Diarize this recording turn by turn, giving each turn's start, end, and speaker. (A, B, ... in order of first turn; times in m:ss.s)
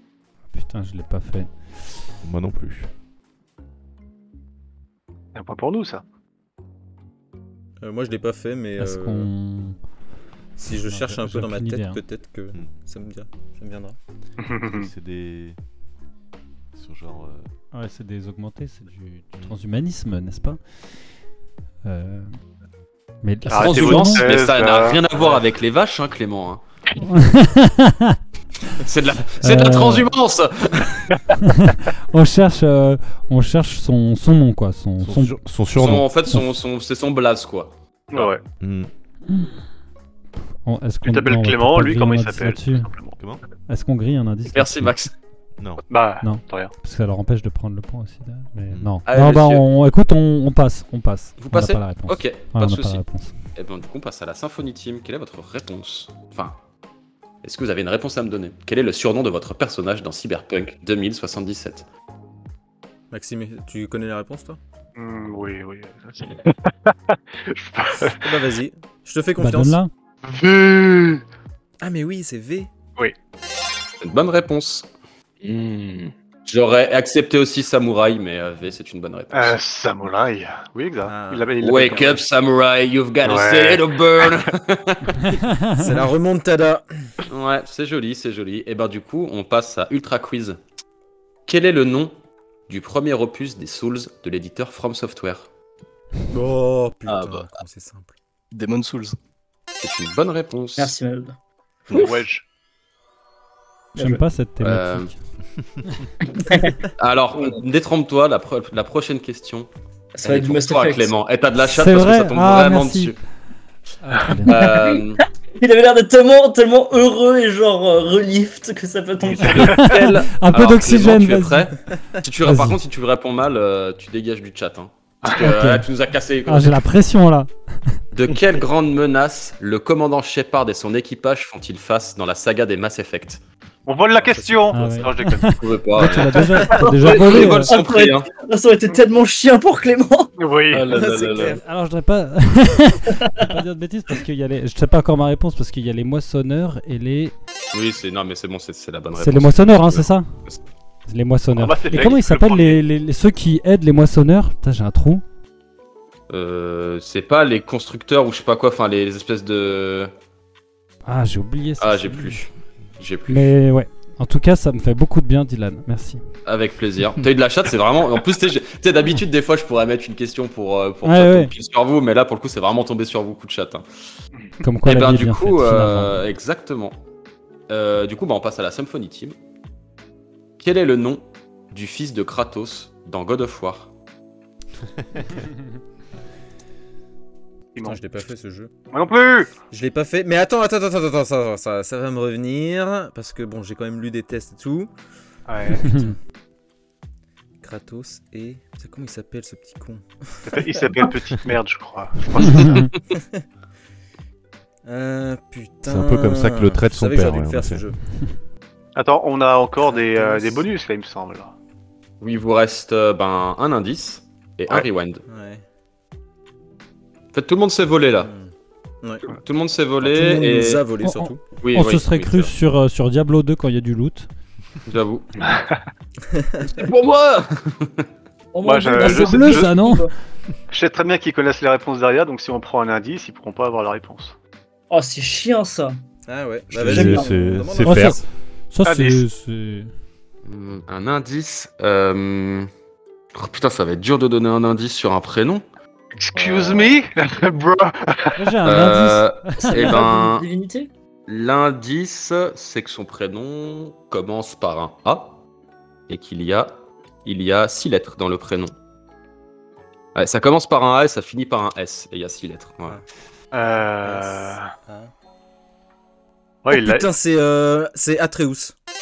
0:00.5-0:01.9 A
0:02.2-0:02.9 B
0:05.3-0:06.0 C
0:07.8-0:09.3 D
0:08.8-0:09.9 A
0:10.6-0:14.0 D
0:10.7-0:12.0 A
0:14.4-0:14.9 C
0:14.7-0:15.6 B
0:16.7-0:17.5 B
0:17.7-0:20.7 A
0:21.8-0:22.4 A
0:23.2-0:24.3 A
0:23.5-0:25.4 C
0:23.5-0:26.6 E
0:27.0-0:28.2 A
0:28.7-0:31.2 E
0:29.4-0:30.1 A
0:31.4-0:35.4 A
0:35.0-0:36.1 B
0:35.8-0:38.3 E
0:38.1-0:38.4 C
0:38.6-0:38.9 B
0:40.6-0:42.9 A
0:41.0-0:43.2 C
0:43.7-0:44.9 A
0:44.5-0:45.1 E
0:45.6-0:45.8 B
0:45.9-0:46.7 C
0:46.2-0:53.4 A
0:48.7-0:49.0 B
0:49.1-0:49.6 E
0:51.4-0:56.6 E
0:57.4-1:01.8 E
1:03.1-1:04.6 D
1:05.0-1:08.4 C
1:08.2-1:09.8 D
1:09.4-1:09.9 A
1:10.2-1:11.2 C
1:11.8-1:12.7 D
1:14.0-1:14.9 E
1:15.4-1:16.1 F
1:16.4-1:19.6 E
1:19.3-1:22.2 C
1:21.0-1:21.9 D
1:21.6-1:25.2 E
1:23.2-1:24.3 C
1:25.2-1:25.9 A
1:25.8-1:27.1 D
1:27.3-1:30.6 E
1:31.5-1:32.1 E
1:32.7-1:35.5 E
1:36.3-1:38.1 D
1:37.1-1:37.5 F
1:38.5-1:39.1 F
1:39.8-1:40.9 E
1:40.8-1:41.4 G
1:41.9-1:42.4 C
1:44.0-1:44.2 G
1:44.0-1:45.2 A
1:44.6-1:45.1 E
1:46.3-1:46.7 G
1:47.0-1:49.7 E
1:50.1-1:51.1 G
1:50.2-1:53.2 E
1:51.6-1:53.2 A
1:54.0-1:54.6 A
1:54.1-1:54.4 C
1:54.4-1:55.2 E
1:54.5-1:55.0 G
1:55.6-1:59.8 G
1:59.4-2:06.8 E
1:59.5-1:59.8 C
1:59.8-2:02.8 A
2:05.4-2:05.9 A
2:06.4-2:08.0 A
2:08.1-2:13.4 E
2:13.8-2:15.5 C
2:14.1-2:15.2 D
2:14.7-2:17.7 A
2:15.6-2:18.3 E
2:16.7-2:20.3 G
2:20.4-2:20.9 C
2:20.7-2:21.6 E
2:20.9-2:21.6 D
2:21.6-2:27.3 A
2:23.1-2:23.5 G
2:27.7-2:30.6 E
2:29.2-2:30.3 A
2:31.1-2:35.2 A
2:31.5-2:32.8 C
2:36.3-2:40.1 E
2:41.0-2:42.4 A
2:41.8-2:43.5 E
2:43.3-2:46.2 A
2:46.4-2:53.8 E
2:51.0-2:51.5 A
2:54.6-2:56.2 A
2:54.8-2:57.0 E
2:57.7-2:59.4 E
3:00.6-3:03.9 E
3:07.7-3:08.2 C
3:07.8-3:08.7 D
3:08.9-3:09.5 C
3:09.7-3:14.9 D
3:15.5-3:15.9 C
3:15.8-3:16.1 A
3:15.9-3:16.2 D
3:17.6-3:20.6 D
3:20.4-3:22.9 C
3:22.4-3:22.9 A
3:23.2-3:23.4 D
3:24.8-3:28.0 D
3:25.8-3:27.8 B
3:29.0-3:31.5 C
3:29.8-3:30.6 D
3:32.2-3:35.2 E
3:34.7-3:35.6 D
3:37.3-3:38.3 E
3:38.2-3:39.2 D
3:39.2-3:40.8 E
3:40.0-3:41.4 D
3:41.0-3:44.3 A
3:41.5-3:42.5 E
3:44.9-3:45.3 E
3:45.4-3:45.8 C
3:46.3-3:46.7 D
3:46.7-3:48.0 E
3:48.5-3:50.1 G
3:48.6-3:49.7 C
3:49.0-3:50.1 A
3:50.7-3:54.4 C
3:54.9-3:56.0 G
3:56.3-3:58.3 D
3:56.7-3:58.2 B
3:56.8-3:57.5 G
3:57.8-3:59.9 A
3:58.8-3:59.3 C
4:00.4-4:02.7 E
4:03.3-4:05.6 E
4:06.1-4:08.4 C
4:06.4-4:06.9 F
4:08.4-4:10.0 A
4:08.6-4:10.4 E
4:09.6-4:10.9 G
4:11.3-4:15.4 E
4:16.1-4:18.7 E
4:20.1-4:23.0 E
4:23.5-4:24.7 C
4:24.0-4:25.1 D
4:26.6-4:27.1 C
4:26.7-4:28.7 D